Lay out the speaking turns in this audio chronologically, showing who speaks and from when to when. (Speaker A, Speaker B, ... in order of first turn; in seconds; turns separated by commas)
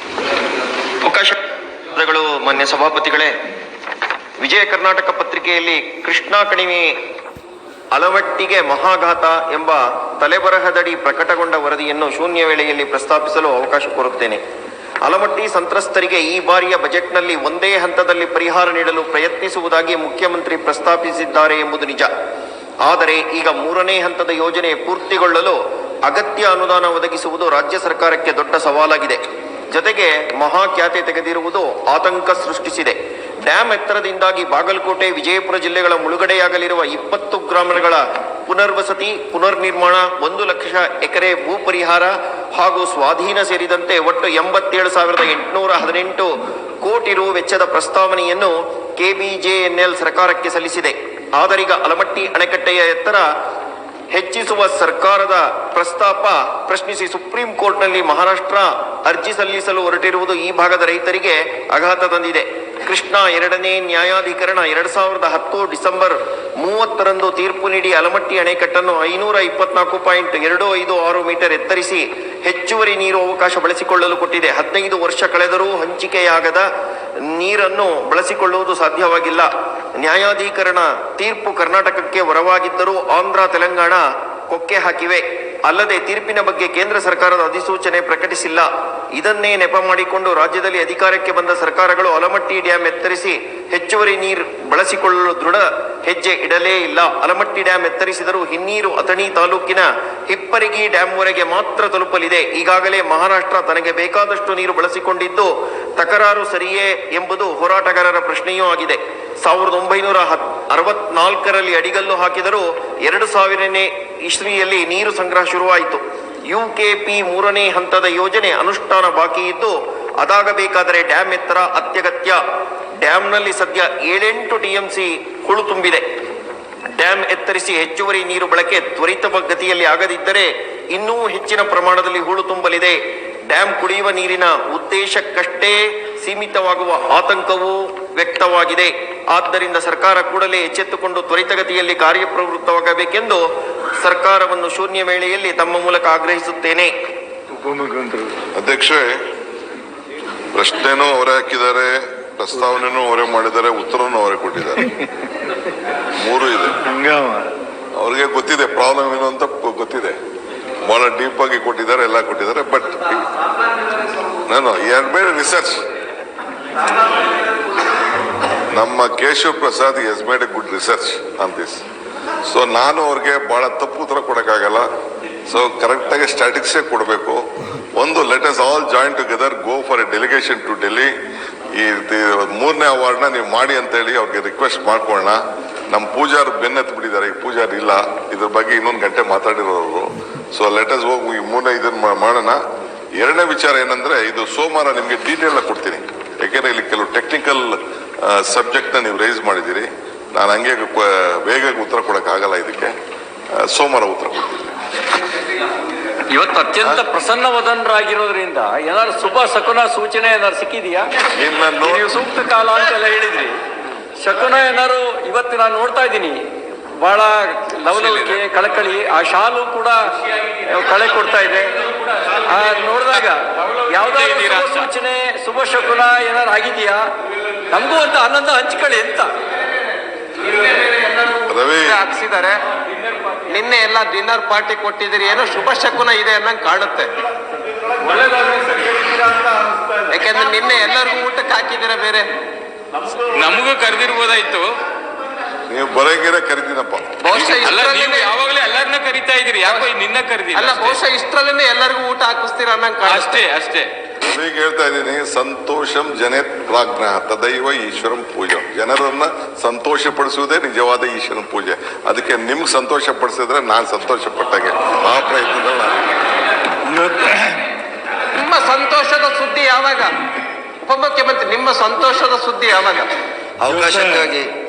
Speaker A: 1.0-1.4, Speaker A: 1.9-3.3, Speaker A: 4.4-6.9, Speaker A: 7.9-14.4, Speaker A: 15.0-22.1, Speaker A: 22.8-29.2, Speaker A: 29.7-46.3, Speaker A: 46.8-53.2, Speaker A: 54.1-76.7, Speaker A: 77.3-122.4, Speaker A: 123.0-126.0, Speaker A: 126.9-143.4, Speaker A: 144.0-146.9, Speaker B: 147.5-148.4, Speaker C: 148.5-149.2, Speaker C: 150.5-154.9, Speaker C: 156.2-156.8, Speaker B: 156.8-157.5, Speaker C: 157.9-160.2, Speaker C: 160.8-163.2, Speaker C: 164.5-165.8, Speaker C: 168.7-171.8, Speaker C: 172.5-174.9, Speaker C: 175.5-181.1, Speaker C: 181.7-192.6, Speaker C: 193.2-202.9, Speaker C: 203.6-204.5, Speaker D: 206.3-211.1, Speaker C: 211.3-212.1, Speaker D: 211.8-213.6, Speaker D: 214.2-216.4, Speaker D: 217.0-220.0, Speaker E: 217.9-218.4, Speaker D: 220.6-221.7, Speaker D: 222.3-227.1, Speaker E: 224.0-224.9, Speaker D: 227.7-229.3, Speaker F: 230.5-232.6, Speaker C: 231.5-232.0, Speaker F: 233.4-237.1, Speaker F: 240.1-242.3, Speaker E: 243.2-244.7, Speaker C: 245.7-247.2, Speaker F: 247.2-248.3, Speaker E: 247.3-251.0, Speaker F: 249.6-249.9, Speaker F: 250.5-253.5, Speaker E: 253.0-253.9, Speaker C: 254.2-266.0, Speaker B: 266.9-267.6, Speaker F: 268.3-270.1, Speaker F: 270.8-273.1, Speaker B: 273.6-274.5